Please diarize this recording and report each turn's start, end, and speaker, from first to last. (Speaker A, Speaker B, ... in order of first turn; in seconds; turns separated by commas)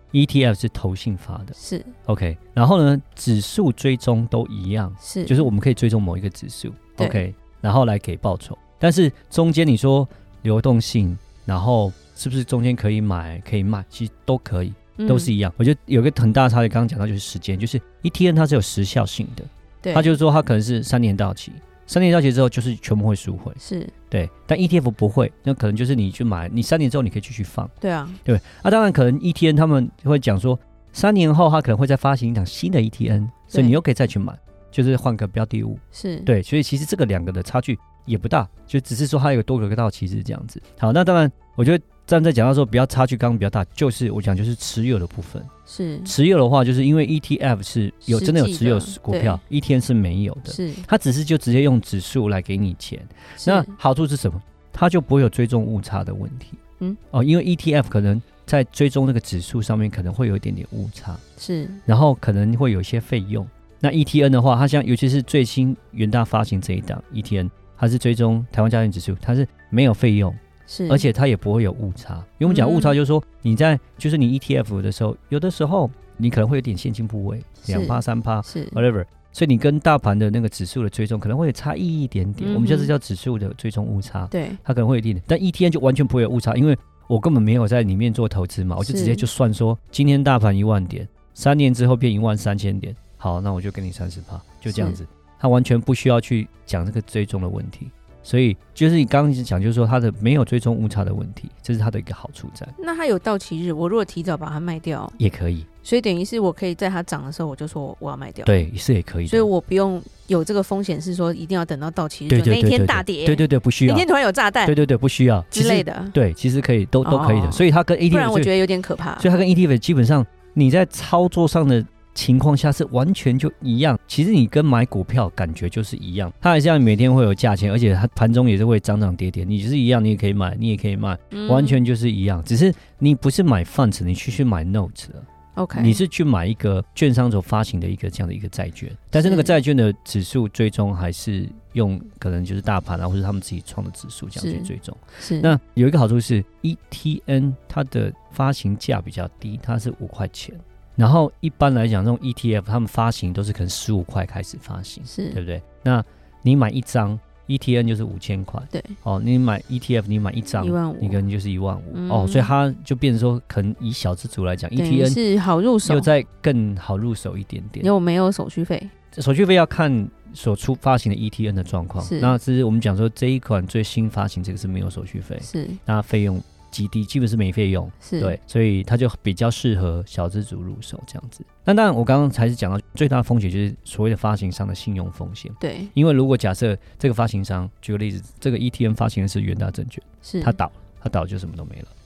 Speaker A: 0.1-23.6, Speaker B: 1.6-1.9, Speaker B: 5.0-5.5, Speaker B: 7.0-7.2, Speaker B: 15.0-15.3, Speaker B: 19.8-20.1, Speaker B: 23.6-23.9, Speaker A: 24.1-27.7, Speaker B: 27.8-28.2, Speaker A: 28.2-45.5, Speaker B: 33.5-33.8, Speaker B: 35.9-36.3, Speaker B: 45.7-46.1, Speaker A: 46.0-56.6, Speaker B: 48.1-49.4, Speaker B: 50.5-50.9, Speaker B: 53.4-53.7, Speaker A: 57.1-61.2, Speaker B: 61.4-61.8, Speaker A: 61.9-102.8, Speaker B: 70.7-71.1, Speaker B: 72.5-73.0, Speaker B: 77.7-78.8, Speaker B: 82.4-82.9, Speaker B: 84.3-84.6, Speaker B: 88.8-89.2, Speaker B: 94.7-95.0, Speaker B: 102.8-105.2, Speaker A: 105.2-105.7, Speaker B: 105.8-108.6, Speaker A: 108.5-109.5, Speaker B: 109.3-114.8, Speaker A: 112.3-114.1, Speaker A: 114.7-118.5, Speaker B: 115.5-116.2, Speaker B: 117.0-119.3, Speaker A: 119.2-165.2, Speaker B: 131.3-131.8, Speaker B: 135.6-136.0, Speaker B: 139.2-139.6, Speaker B: 144.4-145.5, Speaker B: 155.1-155.4, Speaker B: 160.6-161.2, Speaker B: 161.9-162.5, Speaker B: 164.8-166.1, Speaker A: 165.8-167.9, Speaker B: 167.8-168.9, Speaker A: 169.1-191.9, Speaker B: 172.0-172.4, Speaker B: 175.4-175.8, Speaker B: 178.0-178.4, Speaker B: 185.6-185.9, Speaker B: 190.2-190.6